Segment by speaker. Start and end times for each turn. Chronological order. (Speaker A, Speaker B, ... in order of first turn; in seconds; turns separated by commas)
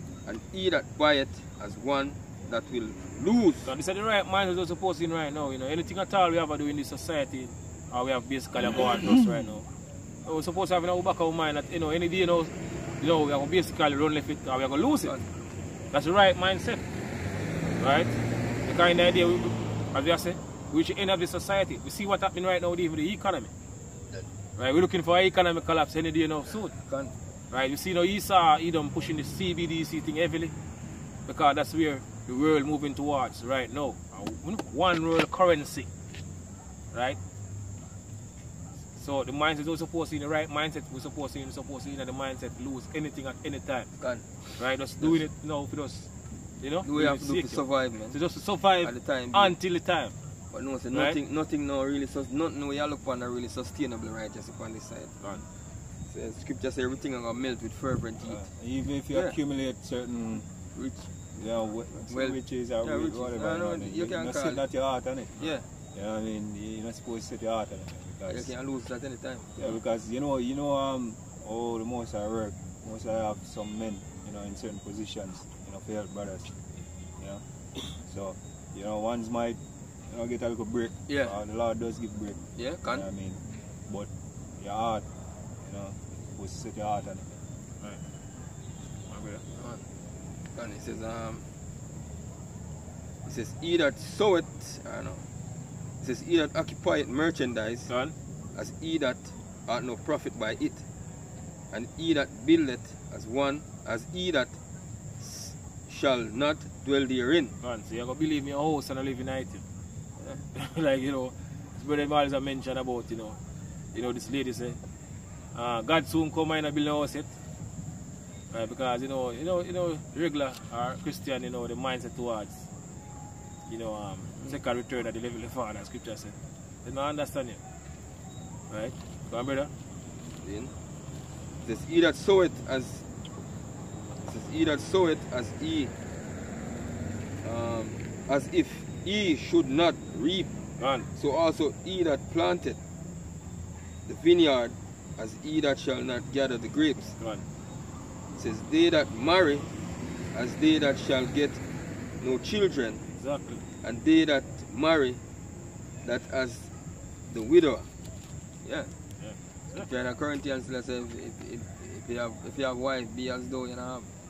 Speaker A: 0.2-3.7, Speaker B: 3.6-9.7, Speaker C: 8.8-9.6, Speaker B: 10.2-15.1, Speaker B: 15.9-16.8, Speaker B: 17.8-23.5, Speaker B: 24.6-26.7, Speaker A: 26.7-27.1, Speaker B: 27.5-30.5, Speaker B: 31.3-35.9, Speaker B: 36.9-37.2, Speaker B: 39.0-43.9, Speaker A: 44.0-45.2, Speaker B: 44.6-46.1, Speaker B: 46.6-50.1, Speaker A: 46.9-48.2, Speaker A: 48.8-49.6, Speaker A: 50.5-55.2, Speaker B: 50.9-51.2, Speaker A: 56.1-58.5, Speaker C: 58.2-60.5, Speaker A: 60.8-61.1, Speaker C: 61.4-65.4, Speaker A: 62.1-64.6, Speaker A: 65.4-65.6, Speaker C: 65.9-68.5, Speaker A: 68.3-69.7, Speaker C: 69.6-76.6, Speaker C: 77.2-77.4, Speaker C: 78.0-85.1, Speaker A: 81.1-81.4, Speaker A: 82.6-83.1, Speaker C: 85.6-87.3, Speaker B: 89.1-89.4, Speaker A: 89.5-89.8, Speaker A: 90.5-91.4, Speaker A: 93.3-95.2, Speaker A: 96.0-97.9, Speaker B: 97.9-98.1, Speaker A: 98.5-100.8, Speaker A: 101.7-104.6, Speaker A: 105.2-107.5, Speaker B: 107.6-109.6, Speaker B: 110.5-113.4, Speaker B: 113.9-114.8, Speaker B: 115.5-117.3, Speaker B: 118.5-122.7, Speaker B: 123.7-127.6, Speaker B: 128.7-129.7, Speaker A: 130.4-130.7, Speaker A: 131.6-133.1, Speaker A: 134.2-135.9, Speaker A: 137.4-140.6, Speaker B: 140.8-141.1, Speaker A: 141.1-142.8, Speaker A: 144.1-147.2, Speaker B: 147.2-147.4, Speaker A: 148.4-149.7, Speaker A: 150.3-151.6, Speaker A: 152.2-153.1, Speaker B: 153.2-153.6, Speaker A: 153.8-155.2, Speaker A: 156.0-156.7, Speaker A: 157.3-157.9, Speaker A: 158.6-158.9, Speaker B: 159.2-159.9, Speaker A: 159.8-164.1